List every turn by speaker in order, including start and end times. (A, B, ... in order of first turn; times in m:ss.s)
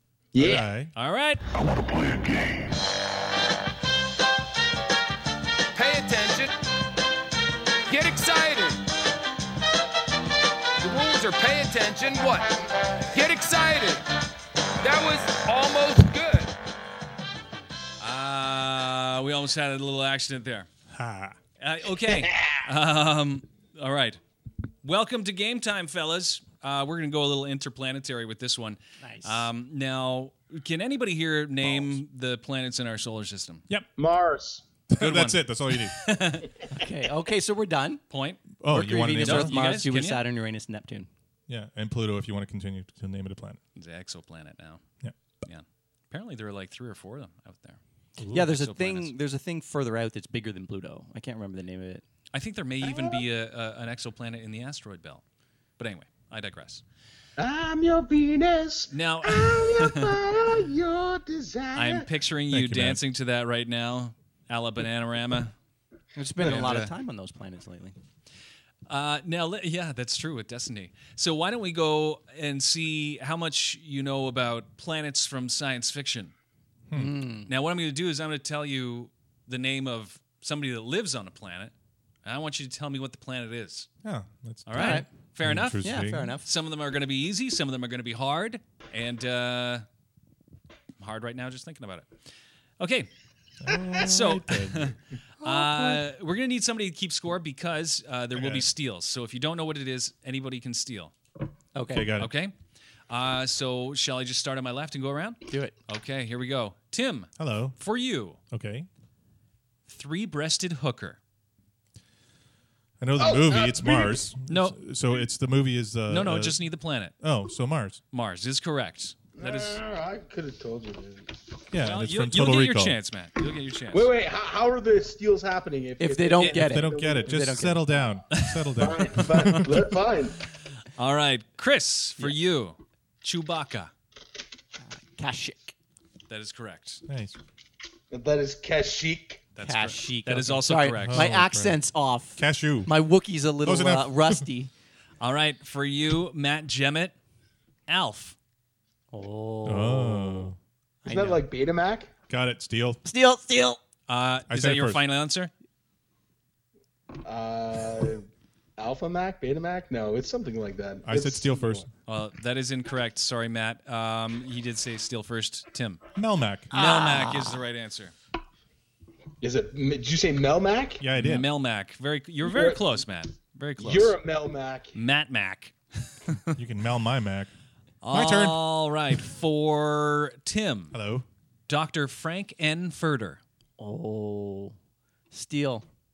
0:00.3-0:00.7 A
0:00.4-0:00.9 B
0:00.4-0:01.4 C
0:05.8-0:06.5 D
0:07.9-0:08.8 D
0:10.8-0:12.6 D
0:13.1-0:14.0 D
0:14.8-0:16.5 D
0:18.0-0:20.7 C
0:20.9-0:21.4 B
0:21.6-0:24.2 C
0:24.8-0:33.8 C
0:29.0-0:29.5 E
0:34.0-0:34.6 A
0:34.9-0:36.2 B
0:35.0-0:36.5 C
0:36.7-0:38.0 E
0:38.1-0:38.6 C
0:38.6-0:39.6 B
0:38.7-0:41.1 E
0:39.2-0:40.3 C
0:41.5-0:43.6 B
0:43.8-0:44.8 C
0:45.4-0:47.8 C
0:48.2-0:48.5 B
0:48.3-0:52.0 E
0:48.3-0:49.1 C
0:52.3-0:55.2 C
0:52.8-0:53.2 A
0:55.8-0:56.8 C
0:57.4-1:02.1 A
0:58.9-1:00.2 C
1:01.7-1:05.5 C
1:02.5-1:03.0 B
1:06.2-1:08.0 E
1:06.4-1:06.9 C
1:08.9-1:16.3 C
1:16.9-1:17.2 B
1:16.9-1:17.5 E
1:17.5-1:21.7 C
1:22.2-1:23.9 C
1:24.0-1:26.4 B
1:24.7-1:25.9 C
1:24.8-1:25.1 E
1:25.8-1:26.5 E
1:26.4-1:29.8 C
1:31.0-1:32.1 C
1:32.8-1:33.1 C
1:33.6-1:35.0 B
1:34.0-1:41.1 C
1:35.4-1:35.9 E
1:38.3-1:38.7 B
1:41.7-1:42.1 E
1:41.9-1:42.3 B
1:42.2-1:42.5 C
1:43.1-1:48.4 C
1:45.5-1:45.7 E
1:47.4-1:47.8 B
1:48.5-1:48.9 B
1:49.9-1:51.2 C
1:53.0-1:56.6 B
1:53.2-1:54.3 A
1:54.5-1:54.8 C
1:56.1-1:57.1 C
1:57.2-1:58.0 B
1:58.1-1:59.8 C
1:59.4-2:01.4 A
2:01.7-2:03.0 B
2:01.8-2:04.1 C
2:03.9-2:07.3 A
2:06.0-2:08.1 E
2:06.4-2:09.9 B
2:08.3-2:09.6 C
2:08.8-2:10.4 A
2:11.0-2:13.9 C
2:14.8-2:15.7 E
2:16.3-2:17.0 C
2:17.1-2:17.4 B
2:18.1-2:19.4 A
2:19.6-2:21.4 C
2:19.6-2:24.7 E
2:21.0-2:21.8 B
2:22.4-2:22.9 B
2:23.6-2:24.5 B
2:25.2-2:27.1 C
2:27.9-2:28.4 C
2:29.1-2:31.4 E
2:29.6-2:30.6 B
2:31.0-2:32.1 A
2:32.3-2:33.0 B
2:33.0-2:33.8 E
2:34.1-2:35.5 C
2:34.5-2:35.0 B
2:37.2-2:38.2 A
2:38.8-2:41.9 A
2:41.0-2:41.9 B
2:42.1-2:46.0 C
2:46.2-2:46.7 B
2:46.7-2:48.2 C
2:46.7-2:47.6 E
2:49.4-2:51.0 A
2:51.0-2:51.5 B
2:51.2-2:54.2 C
2:52.4-2:53.0 A
2:53.8-2:55.0 A
2:54.9-2:56.6 C
2:56.6-2:57.5 B
2:58.0-3:01.0 C
2:58.1-2:58.6 B
3:00.9-3:01.3 B
3:01.7-3:03.4 C
3:03.8-3:04.8 E
3:05.3-3:05.8 E